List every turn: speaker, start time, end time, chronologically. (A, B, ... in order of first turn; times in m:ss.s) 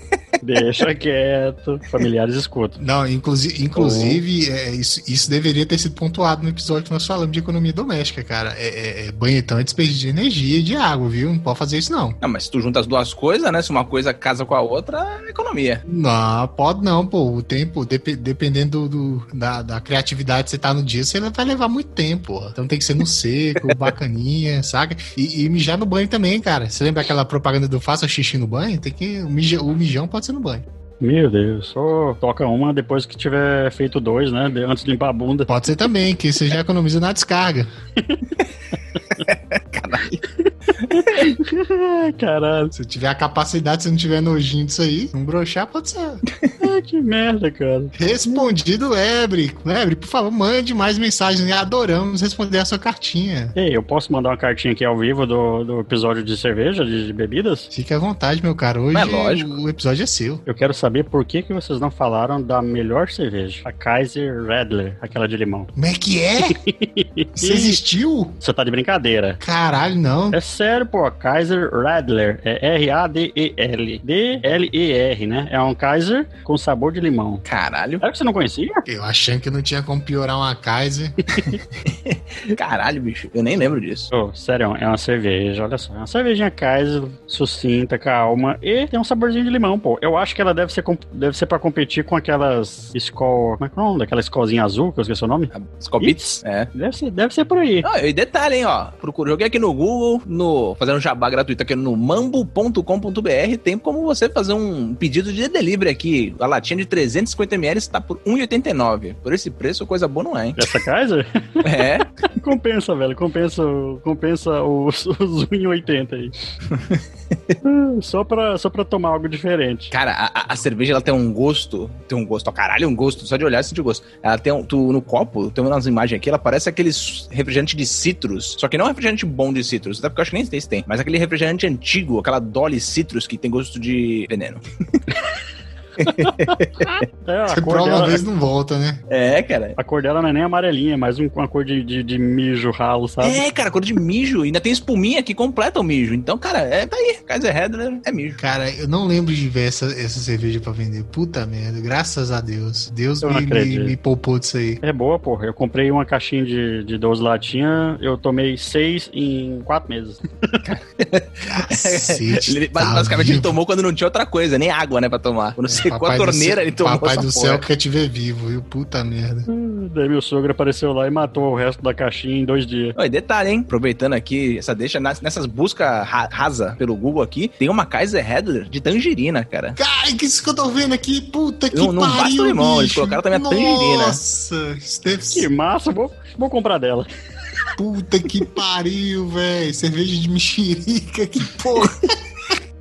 0:00.4-0:02.8 A
0:02.8-0:12.2 B
0:03.8-0:04.2 A
0:12.2-0:15.8 C
0:15.9-0:30.6 B
0:31.0-0:35.5 A
0:35.5-0:37.7 B
0:38.0-0:38.2 A
0:39.2-0:40.2 C
0:40.4-0:42.7 A
0:40.9-0:41.2 C
0:42.7-0:46.2 B
0:46.6-0:48.5 A
0:48.0-0:53.5 B
0:53.5-0:57.7 A
0:57.7-1:00.4 B
0:58.9-0:59.5 C
1:00.5-1:05.7 A
1:05.8-1:06.6 B
1:06.4-1:07.8 A
1:07.4-1:08.4 B
1:08.4-1:09.4 A
1:09.4-1:10.4 B
1:10.3-1:17.4 A
1:17.4-1:18.0 C
1:18.0-1:18.8 A
1:18.8-1:21.2 B
1:21.3-1:21.6 A
1:21.9-1:24.1 C
1:24.1-1:37.8 A
1:35.5-1:36.7 C
1:37.8-1:50.7 C
1:50.6-1:56.3 A
1:51.6-1:52.1 C
1:57.6-1:59.9 A
1:59.9-2:15.0 C
2:16.0-2:16.9 C
2:16.2-2:18.2 A
2:17.5-2:19.0 B
2:19.1-2:19.8 C
2:19.8-2:23.4 A
2:23.2-2:28.4 C
2:28.4-2:34.8 B
2:33.2-2:33.9 A
2:34.8-2:40.6 A
2:40.6-2:47.6 C
2:41.5-2:43.5 B
2:45.7-2:49.4 B
2:49.5-2:52.9 A
2:53.0-2:59.8 C
2:59.8-3:05.5 B
3:01.7-3:04.2 C
3:05.3-3:07.1 A
3:07.8-3:12.5 B